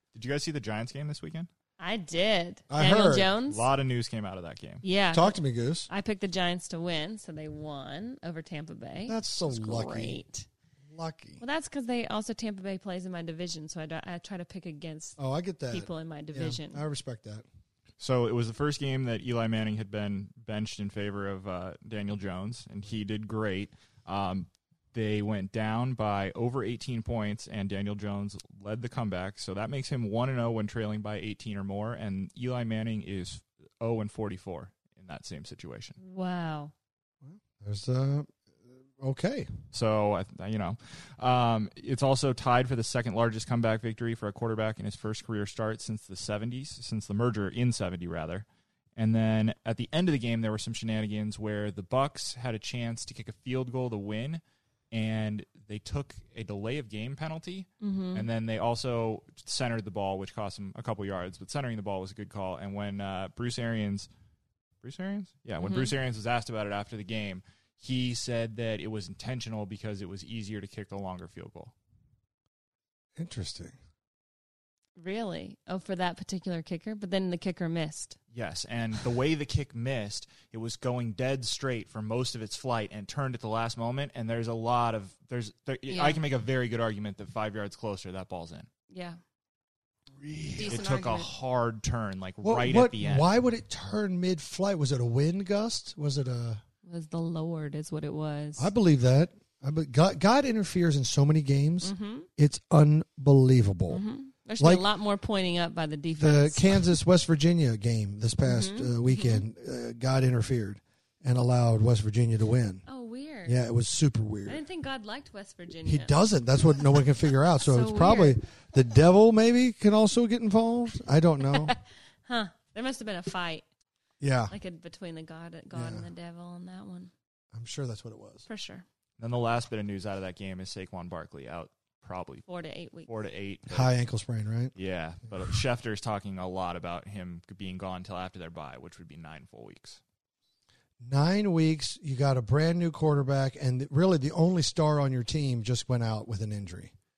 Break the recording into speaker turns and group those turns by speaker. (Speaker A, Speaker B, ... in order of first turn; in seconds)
Speaker A: 0.1-1.5, 3.5-4.8, 18.0-36.0, 39.7-64.1, 64.8-71.7, 78.3-88.7, 90.6-93.3, 129.2-132.5, 133.1-133.9, 134.8-140.0
Speaker B: 1.8-3.7, 4.8-5.4, 5.9-10.5, 11.4-15.2, 15.7-16.8, 36.0-36.7, 57.8-58.3, 65.6-65.9, 75.0-78.2, 85.9-86.2, 88.9-89.2, 90.5-91.3, 96.8-98.7, 101.8-102.3, 103.9-107.0, 108.5-109.4, 112.9-113.6, 114.5-116.1, 117.6-118.4, 121.5-123.7, 124.5-127.1, 128.5-128.8, 132.5-133.1
Speaker C: 2.7-3.3, 5.1-5.9, 9.1-10.2, 10.9-11.4, 15.2-17.4, 37.2-38.3, 39.0-39.5, 73.2-73.8, 90.2-90.8, 92.4-96.6, 98.6-104.0, 104.6-104.8, 106.2-112.8, 113.5-114.6, 115.8-121.8, 124.2-124.5, 125.7-126.1, 127.5-128.4, 133.7-134.7, 141.0-146.9